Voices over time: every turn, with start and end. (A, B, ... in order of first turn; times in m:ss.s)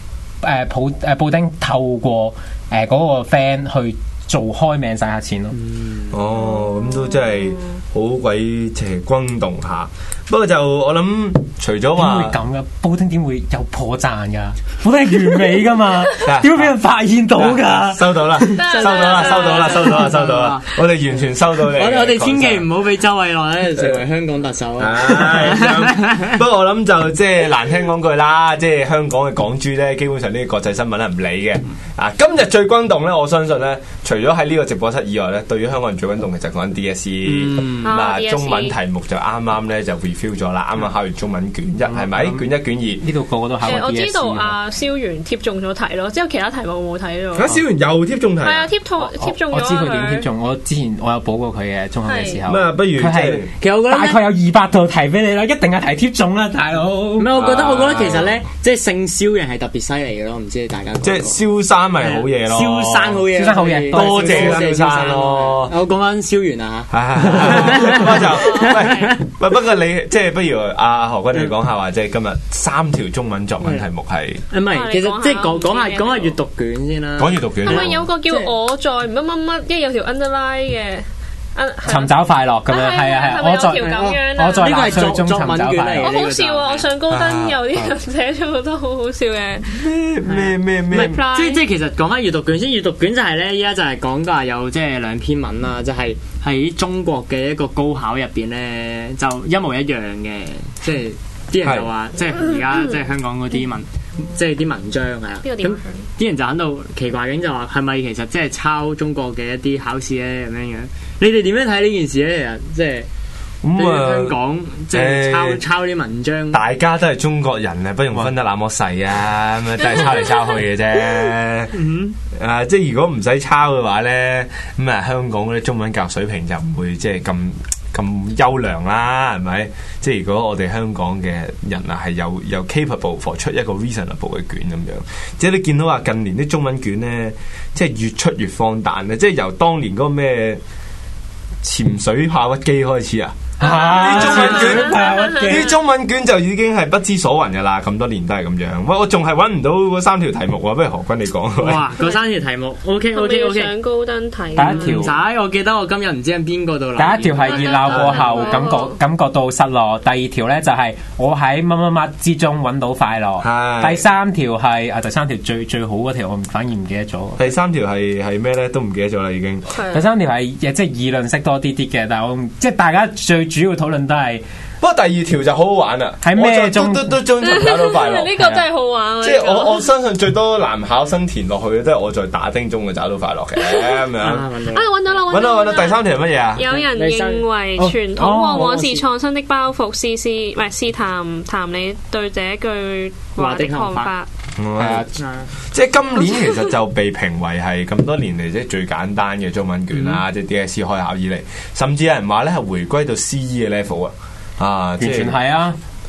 0:00.4-0:05.6 A
0:05.5-0:06.2 B
0:06.1-0:12.4 C
0:06.6-0:06.9 D
0:12.0-0:18.7 A
0:16.2-0:16.8 C
0:17.4-0:22.7 C
0:18.6-0:20.0 D
0:18.8-0:20.7 B
0:21.7-0:26.3 B
0:24.8-0:43.0 C
0:37.2-0:37.9 B
0:37.8-0:38.8 D
0:41.9-0:42.4 A
0:43.0-0:44.6 A
0:43.6-0:47.6 D
0:47.3-0:48.7 C
0:48.4-0:50.3 D
0:49.0-0:57.4 A
0:52.0-0:52.4 D
0:52.5-0:53.5 C
0:53.6-0:54.2 B
0:57.2-1:01.4 B
0:57.4-0:58.4 C
1:01.0-1:03.2 C
1:02.0-1:09.2 B
1:03.3-1:04.6 A
1:03.9-1:05.7 C
1:06.9-1:14.4 C
1:13.6-1:13.8 B
1:14.5-1:18.5 B
1:14.6-1:16.4 D
1:17.2-1:18.0 C
1:17.6-1:22.2 D
1:21.8-1:26.1 A
1:22.7-1:25.2 D
1:23.9-1:26.9 B
1:26.0-1:29.8 D
1:27.1-1:27.9 C
1:29.7-1:31.2 C
1:30.2-1:53.1 B
1:30.9-1:31.6 D
1:41.6-1:41.9 C
1:45.4-1:46.0 D
1:53.6-1:54.4 C
1:53.8-1:56.6 B
1:54.9-1:55.6 C
1:56.5-2:01.7 C
2:01.7-2:02.2 B
2:02.3-2:20.6 C
2:21.6-2:31.8 C
2:23.6-2:25.7 A
2:23.6-2:25.6 D
2:24.1-2:24.7 B
2:31.6-2:33.7 B
2:31.9-2:32.2 D
2:33.1-2:35.1 D
2:34.5-2:35.2 A
2:34.6-2:38.5 B
2:37.0-2:47.5 A
2:37.3-2:39.0 D
2:43.4-2:44.0 C
2:47.4-2:49.7 C
2:49.7-2:50.0 D
2:49.9-2:54.4 A
2:54.8-2:58.7 C
2:56.2-2:57.2 A
2:57.4-2:59.9 D
2:59.2-3:04.4 C
3:04.2-3:05.2 B
3:04.7-3:14.3 D
3:05.3-3:06.7 C
3:06.6-3:07.4 B
3:07.8-3:09.0 A
3:13.4-3:14.1 B
3:14.6-3:15.1 C
3:15.1-3:15.5 B
3:15.6-3:25.4 C
3:19.9-3:20.2 B
3:25.0-3:25.8 A